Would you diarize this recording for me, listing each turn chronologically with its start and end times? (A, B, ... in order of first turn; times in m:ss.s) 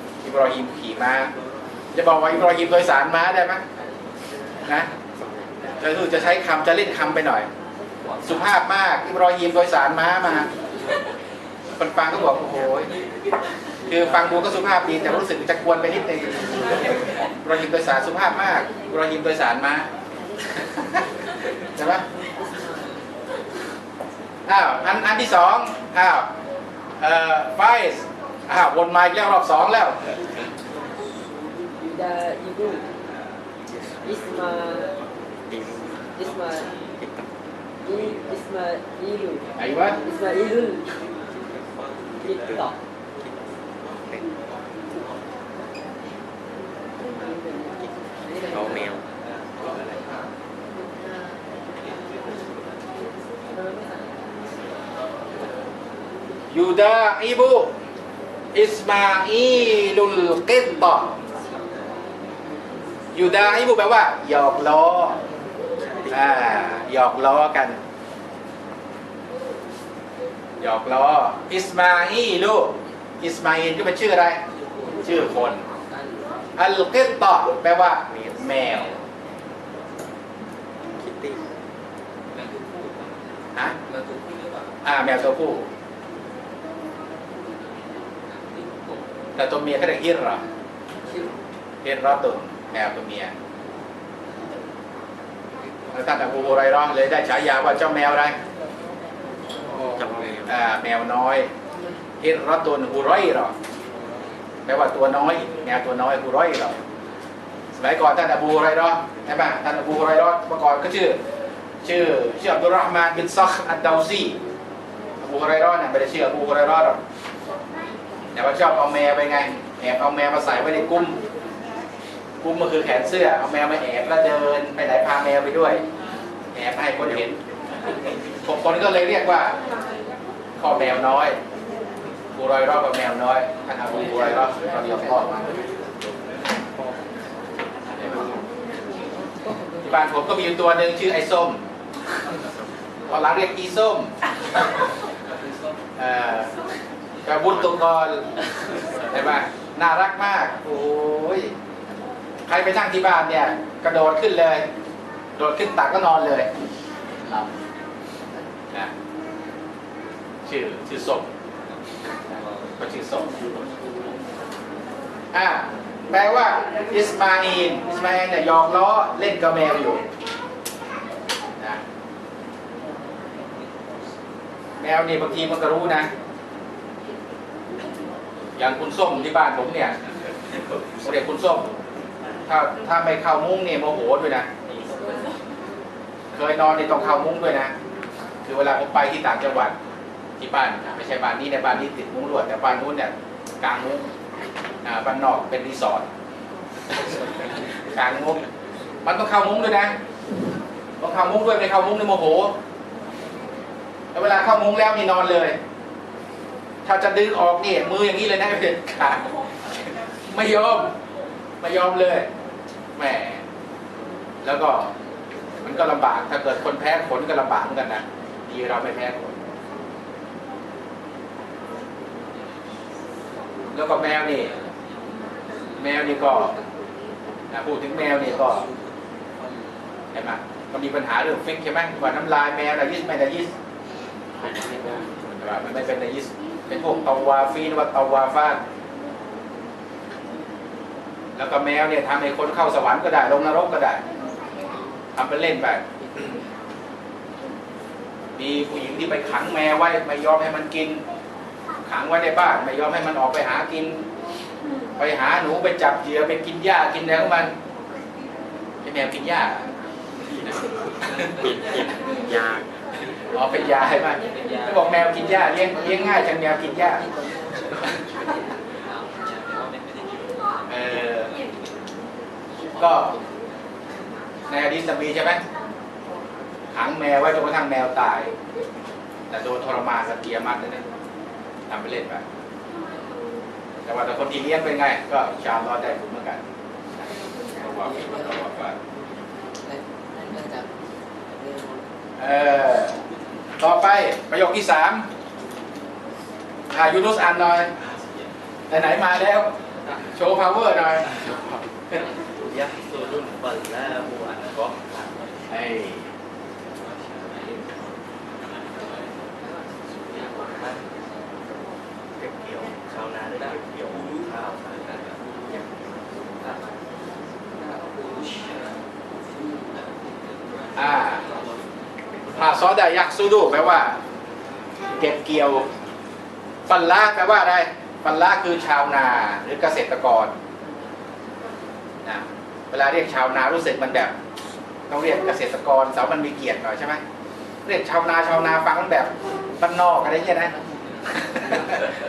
0:00.2-0:01.3 A
0:02.0-0:03.6 A
0:05.2-0:05.5 B
0:05.8-0:07.5 A
0:08.2-0:10.5 A
0:11.8-0:12.9 A
0:13.9-0:19.9 A
0:21.8-0:22.0 A
0:24.5-0:26.3 A
0:27.0-0:30.0 A
0:31.8-0:32.9 C
0:33.7-0:34.1 B
0:34.1-0:35.0 C
0:35.5-0:36.0 B
0:36.2-0:36.7 C
0:37.0-0:37.3 B
0:37.8-0:40.9 C
0:39.6-0:40.0 A
0:41.3-0:44.2 B
0:42.2-0:42.7 C
0:47.2-0:48.9 C
0:48.5-0:49.0 B
0:56.5-0:57.7 A
0:58.5-1:01.1 A
1:03.1-1:05.2 A
1:06.1-1:07.8 A
1:10.6-1:14.4 A
1:15.0-1:15.6 A
1:15.7-1:16.0 D
1:16.6-1:19.0 A
1:21.0-1:21.5 B
1:22.3-1:23.2 D
1:23.8-1:24.7 D
1:24.8-1:25.7 A
1:28.3-1:29.0 D
1:29.4-1:30.4 A
1:31.8-1:33.3 A
1:35.9-1:38.4 A
1:39.8-1:40.5 B
1:40.5-1:41.5 A
1:42.2-1:43.5 A
1:44.6-1:46.8 A
1:47.7-1:51.2 A
1:51.8-1:54.4 A
1:55.2-1:57.0 A
1:58.4-2:01.2 A
2:02.4-2:05.8 A
2:06.5-2:07.4 A
2:08.4-2:09.6 A
2:10.6-2:11.4 A
2:12.4-2:15.5 A
2:18.0-2:18.4 A
2:19.8-2:21.6 A
2:23.1-2:24.1 A
2:26.0-2:26.5 A
2:27.2-2:28.2 A
2:29.1-2:31.5 A
2:32.5-2:34.6 A
2:35.4-2:36.5 A
2:40.5-2:41.3 A
2:42.3-2:43.3 A
2:45.3-2:50.0 A
2:54.8-2:56.1 A
2:58.6-3:00.0 A
3:01.0-3:01.7 A
3:02.5-3:04.5 A
3:06.3-3:07.7 A
3:08.5-3:09.8 A
3:10.4-3:14.0 A
3:14.8-3:16.1 A
3:17.9-3:18.4 A
3:19.0-3:20.0 A
3:21.0-3:22.5 A
3:24.1-3:25.6 A
3:26.8-3:29.3 A
3:30.3-3:30.9 A
3:31.6-3:32.3 A
3:33.0-3:33.4 A
3:34.4-3:34.9 A
3:35.6-3:39.4 A
3:43.7-3:44.5 A
3:45.8-3:46.6 A
3:47.5-3:48.6 A
3:50.1-3:53.5 A
3:54.5-3:58.6 A
4:01.4-4:04.0 A
4:05.2-4:06.3 A
4:08.4-4:11.0 A
4:11.9-4:14.0 A
4:15.0-4:17.5 A
4:18.8-4:19.7 A
4:21.2-4:21.6 D
4:21.4-4:22.7 B
4:23.3-4:27.1 A
4:24.2-4:24.7 D
4:28.9-4:30.1 D
4:30.7-4:31.3 A
4:32.8-4:33.2 A
4:34.5-4:35.4 A
4:36.7-4:38.3 A
4:39.3-4:40.8 A
4:41.7-4:42.2 A
4:43.8-4:46.4 A
4:47.0-4:48.8 A
4:49.7-4:50.7 C
4:51.4-4:51.7 C
4:52.2-4:53.0 A
4:53.6-4:55.1 A
4:56.7-4:57.7 A
4:58.7-4:59.5 A
5:00.1-5:02.0 A
5:05.5-5:06.1 A
5:17.6-5:18.7 D
5:20.8-5:21.2 A
5:22.4-5:24.0 A
5:25.0-5:25.7 A
5:26.7-5:30.3 A
5:32.0-5:34.1 A
5:34.9-5:37.0 A
5:37.6-5:40.5 A
5:41.4-5:41.9 A